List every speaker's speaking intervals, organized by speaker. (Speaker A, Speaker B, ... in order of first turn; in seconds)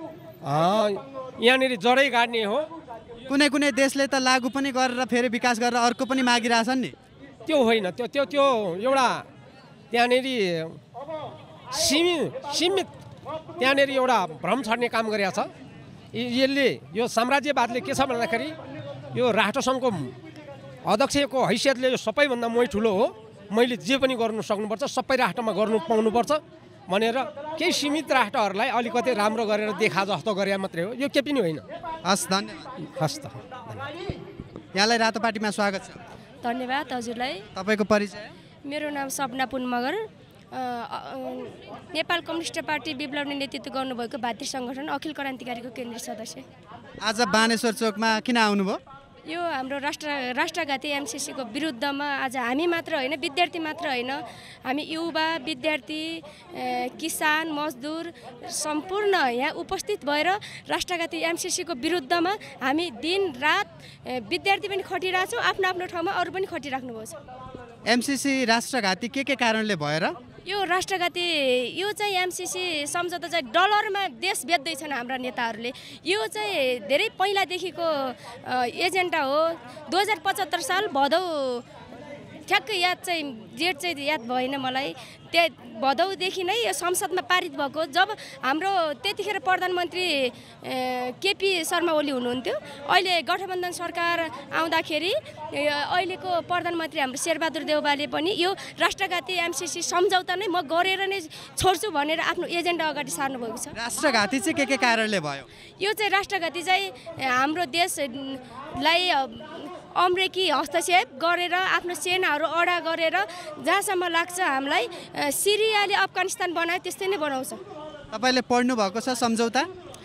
Speaker A: 0.4-2.7, 7.5-9.2, 9.9-10.8, 11.7-12.9, 13.6-15.5, 16.1-18.5, 19.1-20.1, 20.9-31.6, 33.0-33.9
Speaker B: 3.3-7.0, 32.0-32.7, 34.7-36.0, 37.6-38.3, 47.0-48.8, 67.9-70.2, 103.8-105.5, 118.1-119.7
Speaker C: 36.4-37.5, 38.7-46.5, 49.3-67.2, 70.5-81.7, 82.5-103.8, 105.8-117.6